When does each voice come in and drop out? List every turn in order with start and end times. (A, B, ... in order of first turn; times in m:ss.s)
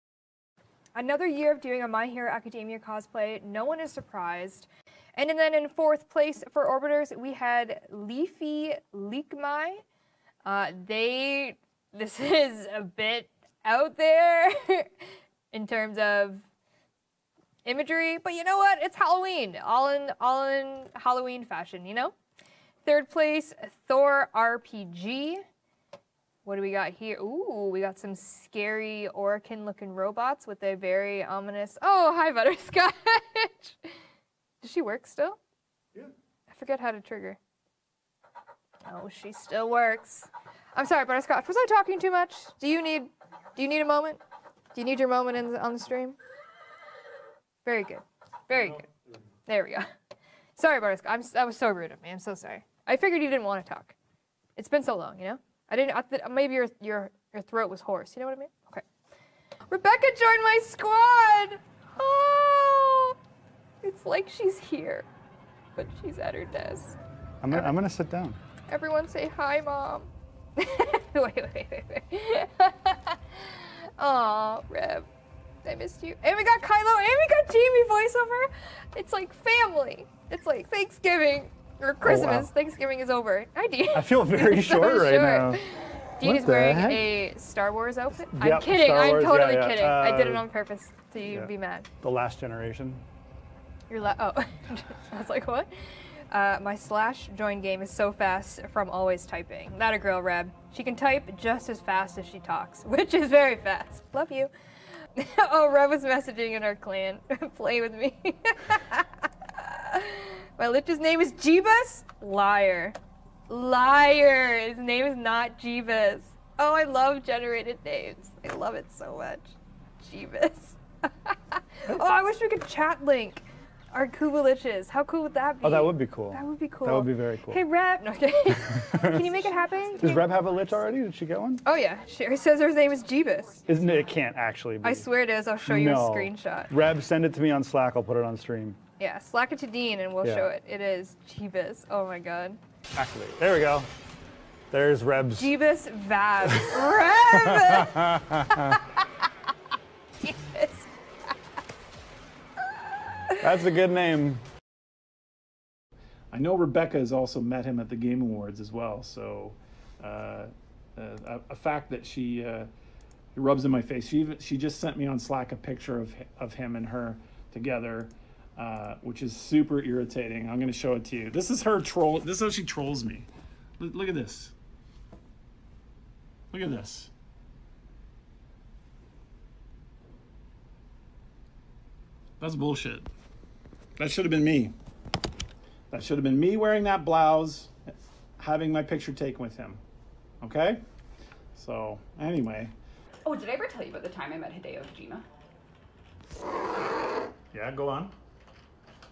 0:01.0-0:09.8 A
0:10.4-0:14.9 A
0:15.5-0:16.4 A
0:17.6-0:22.1 A
0:22.8-0:25.4 A
0:26.4-0:33.9 A
0:34.6-0:35.4 A
0:36.5-0:37.4 A
0:38.8-0:44.2 A
0:44.7-0:46.2 A
0:47.6-0:48.9 A
0:49.5-0:49.9 A
0:50.6-0:54.0 A
0:54.6-0:58.8 A
0:59.7-1:03.2 A
1:03.8-1:05.1 A
1:05.8-1:07.0 A
1:07.4-1:08.4 B
1:07.5-1:07.8 A
1:08.7-1:15.1 A
1:15.6-1:31.9 A
1:22.0-1:22.5 B
1:23.9-1:25.6 B
1:26.2-1:27.1 B
1:28.3-1:30.5 B
1:32.0-1:33.0 B
1:33.9-1:44.5 A
1:45.1-1:53.0 A
1:53.5-2:10.4 A
2:05.6-2:07.6 B
2:08.6-2:09.3 B
2:10.0-2:11.6 B
2:11.6-2:13.7 A
2:13.7-2:15.1 B
2:14.8-2:16.7 A
2:15.6-2:18.8 B
2:19.0-2:22.6 A
2:20.2-2:20.5 B
2:23.0-2:23.9 B
2:24.7-2:25.5 B
2:25.4-2:29.1 A
2:27.3-2:28.6 B
2:30.2-2:30.9 A
2:33.4-2:34.4 B
2:36.3-2:42.7 C
2:43.4-2:53.3 C
2:53.8-2:54.5 C
2:56.5-2:57.1 C
3:02.4-3:03.1 C
3:04.0-3:04.7 C
3:05.9-3:09.8 C
3:10.4-3:10.8 C
3:11.6-3:12.7 C
3:13.2-3:15.2 D
3:17.5-3:18.1 C